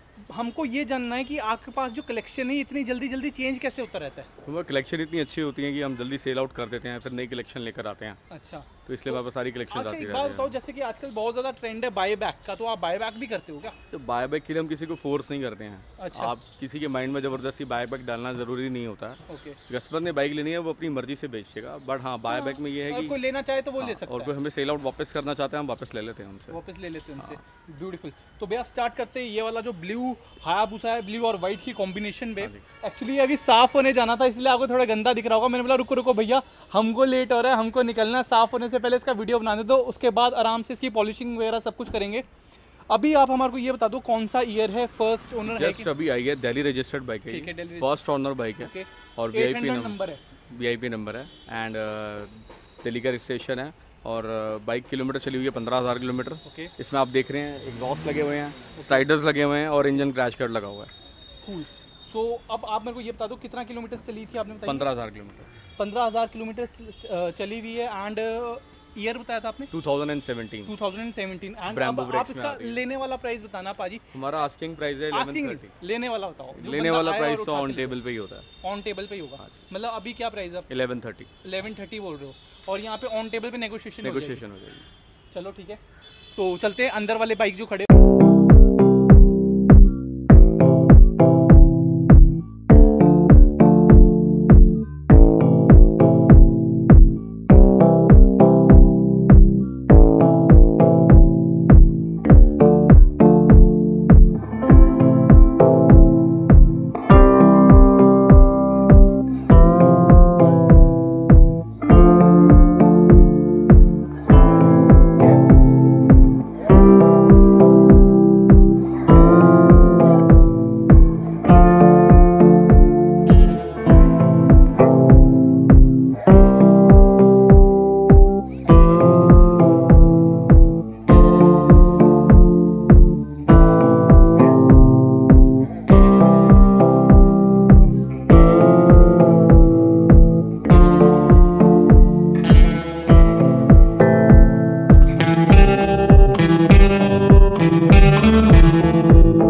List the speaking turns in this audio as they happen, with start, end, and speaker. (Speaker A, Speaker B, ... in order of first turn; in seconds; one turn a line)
Speaker A: 0.3-4.3
Speaker B: 4.4-8.2
Speaker A: 8.3-13.8
Speaker B: 8.9-10.6
Speaker B: 13.9-23.2
Speaker A: 16.0-16.3
Speaker A: 19.3-19.6
Speaker A: 22.3-24.3
Speaker B: 23.8-26.6
Speaker A: 26.5-42.2
Speaker A: 42.9-45.9
Speaker B: 45.5-50.0
Speaker A: 47.3-48.0
Speaker A: 48.6-50.2
Speaker B: 50.5-60.9
Speaker A: 56.5-56.7
Speaker A: 58.8-59.1
Speaker A: 61.4-64.9
Speaker B: 64.7-65.5
Speaker A: 65.8-69.7
Speaker B: 69.7-70.7
Speaker A: 70.7-74.1
Speaker B: 71.7-72.8
Speaker B: 74.1-75.7
Speaker A: 75.1-78.0
Speaker B: 76.5-78.5
Speaker A: 78.6-80.7
Speaker B: 80.7-81.3
Speaker A: 81.4-84.4
Speaker B: 84.0-84.8
Speaker A: 85.3-85.8
Speaker A: 86.3-87.9